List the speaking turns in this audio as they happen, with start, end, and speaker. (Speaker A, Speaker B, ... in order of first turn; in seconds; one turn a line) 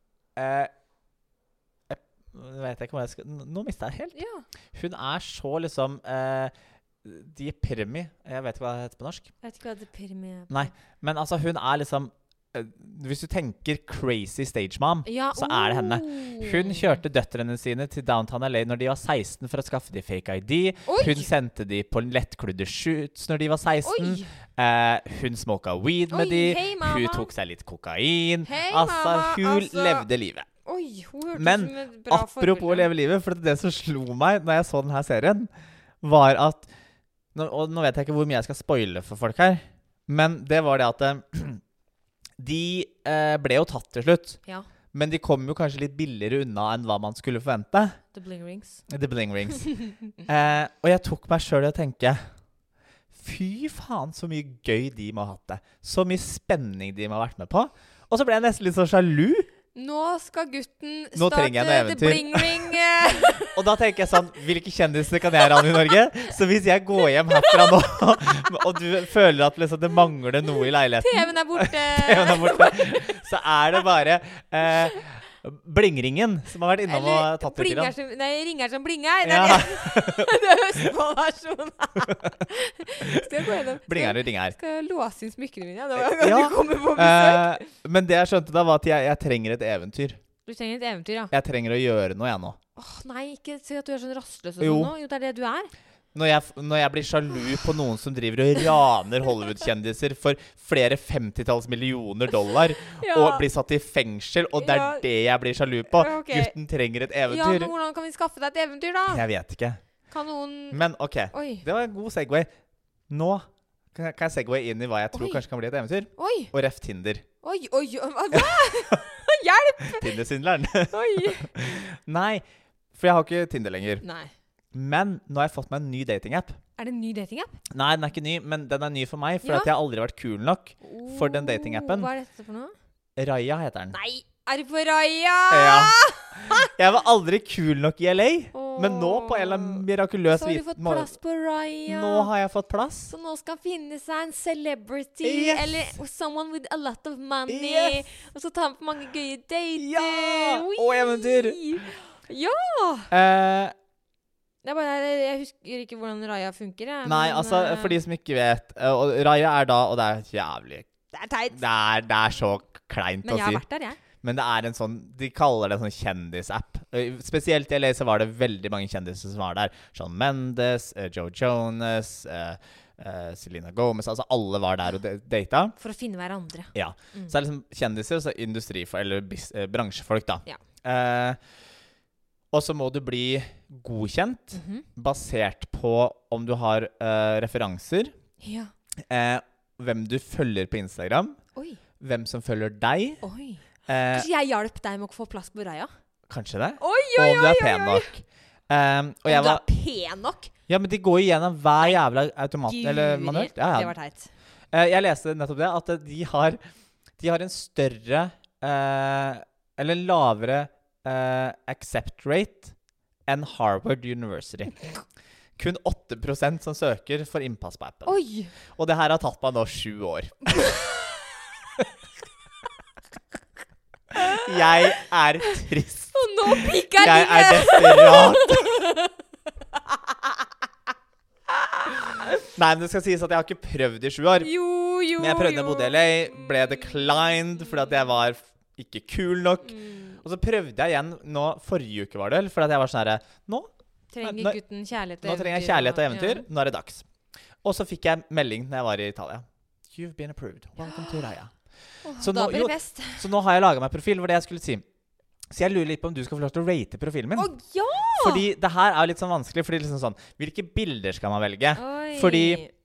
Speaker A: 0.4-0.7
Speaker A: 1.9-4.2
Speaker B: 4.2-4.5
Speaker A: 4.7-6.5
Speaker A: 7.0-9.3
Speaker B: 9.4-10.7
Speaker A: 10.5-30.5
Speaker B: 15.1-17.0
Speaker B: 20.9-21.3
Speaker B: 23.8-24.3
Speaker B: 26.1-27.3
Speaker B: 28.4-30.1
Speaker B: 30.6-32.9
Speaker A: 31.4-35.5
Speaker A: 36.0-36.7
Speaker A: 37.4-41.6
Speaker A: 42.4-44.4
Speaker A: 44.9-48.0
Speaker B: 48.1-48.8
Speaker A: 48.9-52.2
Speaker B: 49.6-50.0
Speaker A: 53.1-59.5
Speaker B: 59.8-63.6
Speaker A: 61.1-62.8
Speaker A: 63.5-77.9
Speaker B: 67.3-67.7
Speaker B: 71.0-73.2
Speaker B: 76.9-87.7
Speaker A: 79.2-80.3
Speaker A: 83.0-84.6
Speaker A: 86.0-90.2
Speaker B: 90.5-91.3
Speaker A: 91.3-92.6
Speaker B: 92.8-95.7
Speaker A: 94.6-94.9
Speaker A: 96.1-107.7
Speaker B: 102.8-103.5
Speaker B: 104.6-105.0
Speaker B: 105.9-106.5
Speaker B: 107.3-109.2
Speaker A: 109.1-109.8
Speaker B: 110.1-111.7
Speaker A: 110.7-112.5
Speaker A: 113.1-117.2
Speaker B: 115.1-115.4
Speaker B: 116.2-116.5
Speaker B: 117.4-120.2
Speaker A: 118.5-119.0
Speaker A: 119.9-124.0
Speaker B: 120.9-121.6
Speaker B: 124.0-124.3
Speaker A: 124.7-126.6
Speaker B: 126.8-127.6
Speaker A: 127.7-132.1
Speaker B: 129.4-129.7
Speaker B: 130.8-132.7
Speaker A: 133.2-134.0
Speaker B: 133.9-136.7
Speaker A: 135.5-141.1
Speaker B: 138.5-142.3
Speaker A: 141.9-143.1
Speaker B: 143.1-153.1
Speaker A: 145.2-146.0
Speaker A: 147.5-148.0
Speaker A: 149.8-151.8
Speaker A: 153.1-153.8
Speaker B: 154.6-158.0
Speaker A: 157.1-160.9
Speaker B: 161.1-161.6
Speaker A: 161.5-163.6
Speaker B: 163.2-164.0
Speaker A: 164.2-175.8
Speaker B: 175.8-177.3
Speaker A: 176.7-181.4
Speaker A: 182.5-188.1
Speaker B: 184.5-184.9
Speaker B: 188.4-188.7
Speaker A: 189.1-191.4
Speaker B: 191.6-191.8
Speaker A: 192.0-193.2
Speaker B: 193.2-195.9
Speaker A: 193.9-194.3
Speaker A: 196.3-199.6
Speaker B: 196.8-198.1
Speaker B: 199.3-200.5
Speaker A: 200.7-203.9
Speaker B: 202.6-204.3
Speaker A: 204.7-206.6
Speaker A: 207.2-212.7
Speaker A: 213.3-214.7
Speaker A: 215.6-218.2
Speaker B: 218.1-218.5
Speaker A: 218.8-220.7
Speaker B: 220.6-221.0
Speaker B: 224.1-224.8
Speaker A: 224.2-228.8
Speaker B: 226.1-229.2
Speaker B: 229.9-230.2
Speaker B: 231.6-232.4
Speaker A: 232.5-234.5
Speaker B: 234.4-237.4
Speaker A: 235.2-243.7
Speaker B: 239.7-240.2
Speaker B: 244.1-246.5
Speaker A: 244.2-244.6
Speaker A: 245.2-247.1
Speaker A: 247.6-251.5
Speaker B: 250.8-251.3
Speaker B: 252.0-253.3
Speaker A: 252.2-254.8
Speaker A: 255.5-257.5
Speaker B: 257.4-258.4
Speaker A: 258.2-262.6
Speaker B: 261.8-262.7